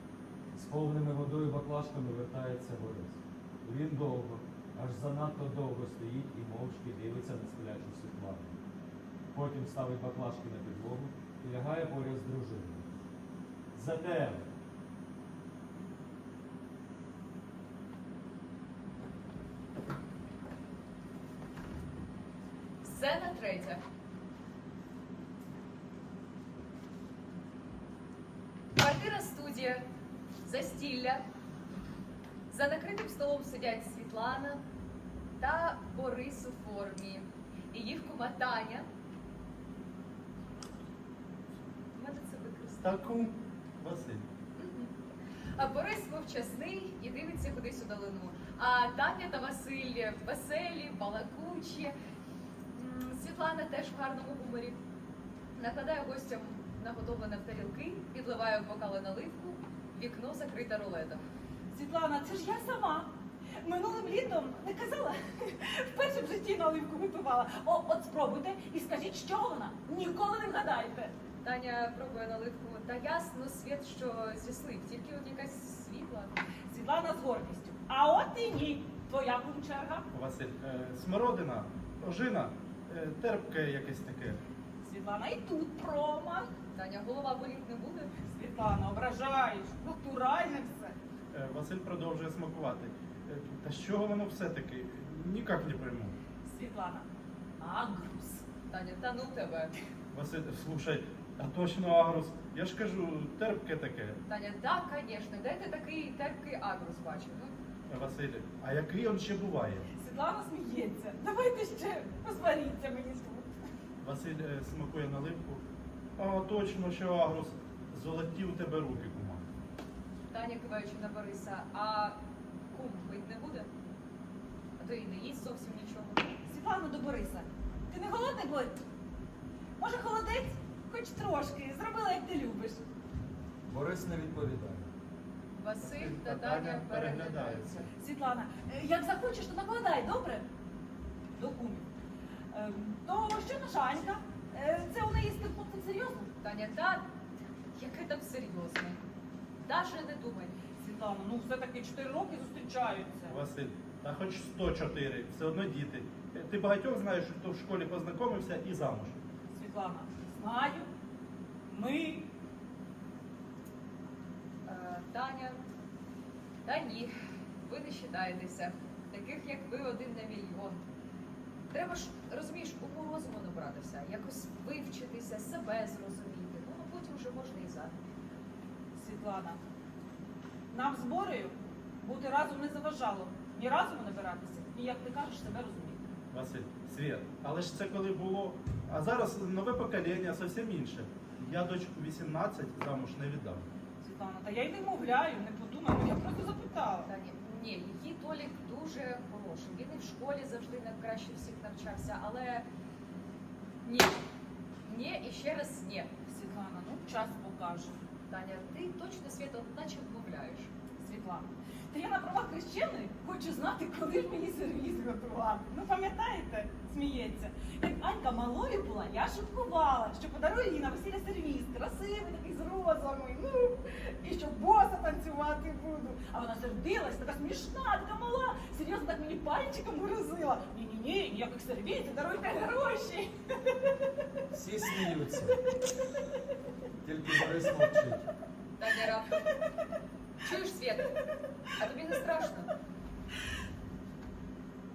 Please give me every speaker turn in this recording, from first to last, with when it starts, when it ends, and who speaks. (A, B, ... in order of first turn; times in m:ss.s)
0:00.5-0:08.5 A
0:09.3-0:12.9 A
0:13.7-0:14.5 A
0:22.8-0:23.8 B
0:28.8-0:29.8 B
0:30.4-0:31.2 B
0:32.5-0:34.6 B
0:35.4-0:38.9 B
0:41.9-0:43.1 B
0:42.8-0:44.3 C
0:44.6-0:44.9 B
0:45.5-0:51.9 B
0:52.8-0:54.8 B
0:55.6-1:01.2 B
1:01.7-1:11.1 D
1:11.4-1:16.4 B
1:16.7-1:20.1 D
1:20.1-1:24.4 C
1:24.8-1:26.6 D
1:26.7-1:28.1 B
1:28.2-1:31.0 D
1:31.3-1:36.2 C
1:36.4-1:37.1 D
1:37.6-1:38.4 D
1:38.7-1:39.7 B
1:40.1-1:44.2 C
1:44.3-1:47.5 B
1:47.9-1:49.9 C
1:50.0-1:53.5 D
1:54.0-1:55.6 C
1:56.2-1:59.4 C
2:00.3-2:02.2 B
2:02.7-2:03.7 B
2:04.8-2:06.3 B
2:06.4-2:08.8 D
2:09.8-2:12.8 D
2:13.7-2:14.9 A
2:15.5-2:17.9 B
2:15.8-2:17.8 C
2:18.0-2:20.5 D
2:21.4-2:21.9 D
2:22.5-2:26.3 D
2:26.4-2:27.1 B
2:27.8-2:29.0 B
2:29.6-2:30.6 B
2:30.8-2:33.4 D
2:33.3-2:39.2 C
2:39.5-2:40.9 D
2:41.7-2:42.3 D
2:44.7-2:45.6 B
2:46.6-2:50.8 B
2:51.7-2:58.0 B
2:59.0-2:59.6 D
3:00.7-3:06.0 D
3:06.3-3:13.7 C
3:14.0-3:17.1 D
3:17.1-3:22.7 B
3:23.8-3:24.2 B
3:24.8-3:26.1 B
3:26.3-3:28.0 D
3:28.3-3:30.7 B
3:31.0-3:53.4 D
3:54.5-3:55.6 A
3:57.0-3:58.3 A
3:58.8-3:59.5 B
4:00.4-4:01.2 B
4:01.8-4:02.7 B